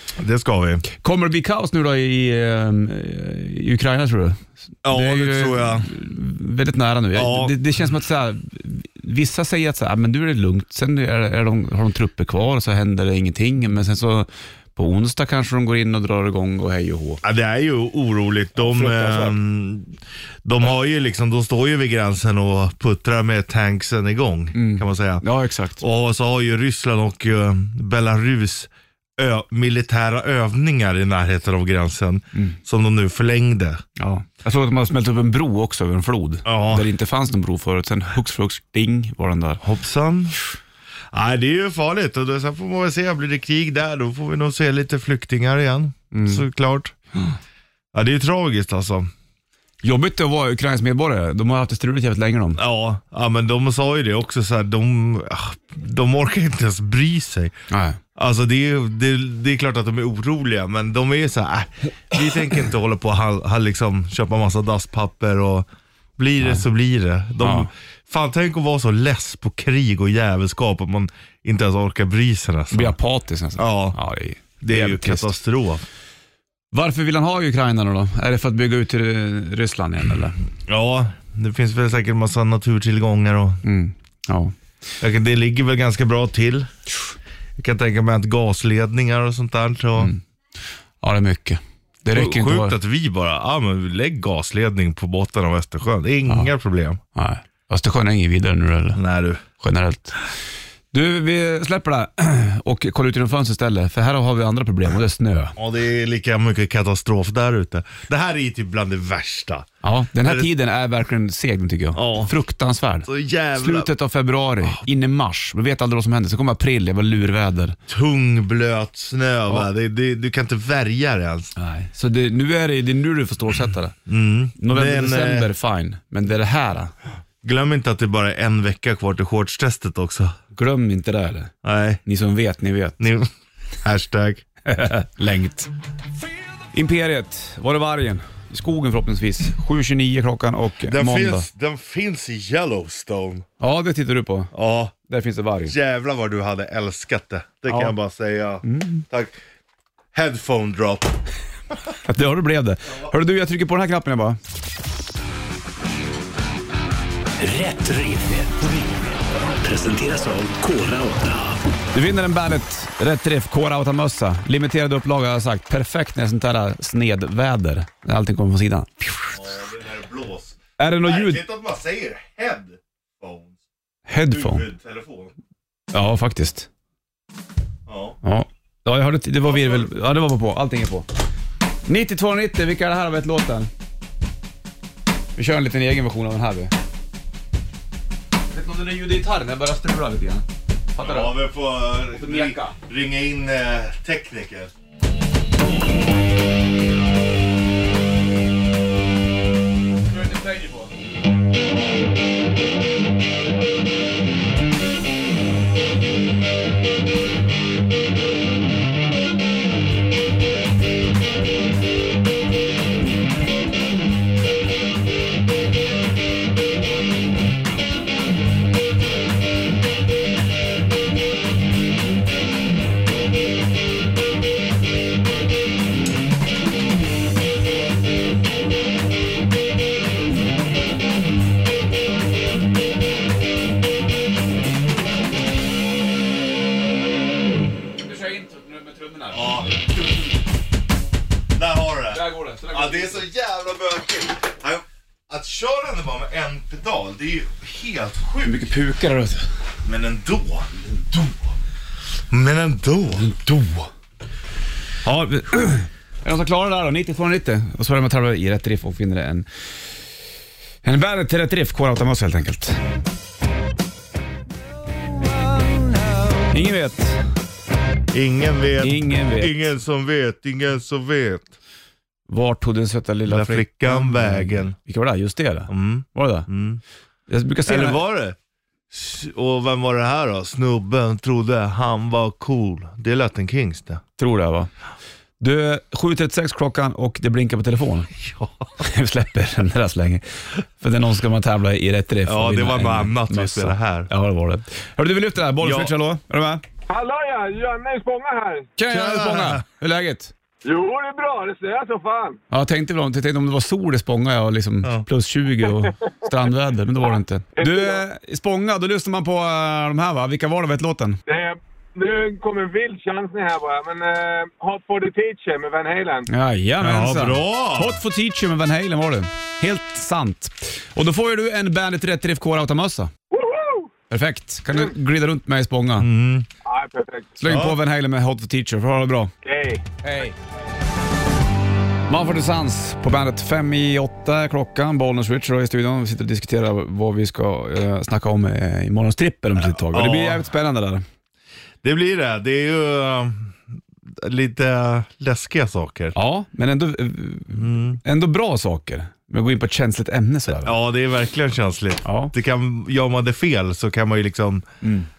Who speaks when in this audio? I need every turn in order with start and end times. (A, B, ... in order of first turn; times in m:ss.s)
0:00.2-0:00.8 A
0:01.0-0:17.2 B
0:04.8-0:05.9 A
0:07.1-0:07.6 A
0:17.2-0:25.2 A
0:18.6-0:19.4 B
0:24.5-0:25.8 B
0:25.8-0:33.8 A
0:34.0-0:39.6 B
0:36.4-0:36.9 A
0:39.6-0:40.4 A
0:41.1-0:47.0 A
0:46.1-0:46.4 B
0:47.9-0:49.1 A
0:49.8-0:52.6 B
0:52.6-0:57.5 A
0:57.7-0:58.0 B
0:58.2-1:12.9 A
1:07.4-1:07.7 B
1:12.7-1:15.3 B
1:13.6-1:14.0 A
1:14.6-1:15.8 A
1:16.7-1:20.4 B
1:20.7-1:23.6 A
1:23.6-1:24.5 B
1:25.0-1:26.7 A
1:27.6-1:30.1 A
1:31.0-1:32.8 B
1:32.1-1:37.0 A
1:37.2-1:39.0 B
1:38.9-1:39.4 A
1:39.6-1:40.2 B
1:40.9-1:45.6 B
1:45.6-1:49.7 A
1:49.8-1:57.8 B
1:51.9-1:52.3 A
1:53.0-1:53.9 A
1:57.9-2:01.5 A
2:01.6-2:04.0 B
2:04.1-2:05.5 A
2:04.6-2:06.9 B
2:07.4-2:10.4 A
2:10.5-2:11.5 B
2:11.6-2:12.0 A
2:12.0-2:13.0 B
2:13.0-2:13.3 A
2:13.8-2:14.4 A
2:14.6-2:15.7 B
2:16.7-2:21.5 B
2:20.8-2:23.4 A
2:23.6-2:24.5 B
2:24.5-2:24.9 A
2:25.1-2:25.7 B
2:25.7-2:29.3 A
2:27.7-2:27.9 B
2:28.6-2:29.0 B
2:30.1-2:31.2 A
2:32.0-2:34.4 B
2:37.4-2:39.0 C
2:39.5-2:41.6 C
2:41.9-2:49.3 B
2:49.3-2:53.6 A
2:50.8-2:51.4 B
2:54.1-2:54.6 B
2:54.2-2:55.3 A
2:55.9-2:56.7 B
2:57.9-2:58.2 A
2:58.2-3:01.1 B
2:59.4-2:59.9 A
3:01.9-3:03.7 B
3:05.4-3:06.7 B
3:08.5-3:11.4 B
3:11.0-3:14.7 A
3:12.1-3:12.8 B
3:20.0-3:20.9 B
3:58.0-3:59.8 B
3:59.3-4:00.1 A
4:01.5-4:08.6 A
4:02.1-4:03.2 B
4:08.4-4:09.4 B
4:09.8-4:10.7 A
4:12.3-4:13.2 A
4:13.2-4:13.9 B
4:15.0-4:19.5 B
4:20.8-4:22.8 B
4:26.5-4:27.2 B
4:28.1-4:31.5 A
4:28.8-4:29.6 B
4:32.3-4:36.5 B
4:33.2-4:34.7 A
4:35.7-4:36.8 A
4:37.3-4:38.0 B
4:37.6-4:38.4 A
4:38.9-4:44.0 A
4:44.2-4:44.7 B
4:45.4-4:48.1 B
4:48.2-4:48.6 A
4:48.8-4:56.6 B
4:52.2-4:54.1 A
4:55.6-4:55.9 A
4:56.9-4:58.7 D
4:58.8-5:00.3 B
4:58.9-4:59.6 A
5:00.6-5:02.4 D
5:02.5-5:11.2 B
5:07.6-5:08.0 D
5:11.3-5:16.3 D
5:16.3-5:23.1 B
5:16.8-5:18.0 A
5:23.3-5:23.9 D
5:24.1-5:26.1 B
5:26.0-5:26.5 A
5:26.6-5:27.4 D
5:27.4-5:29.3 B
5:27.4-5:27.8 A
5:29.4-5:29.8 D
5:30.0-5:30.3 B
5:32.1-5:41.0 B
5:39.6-5:40.4 A
5:41.8-5:46.1 A
5:46.1-5:50.8 B
5:47.6-5:48.0 A
5:50.6-5:54.6 A
5:52.0-5:52.3 B
5:54.8-5:55.1 B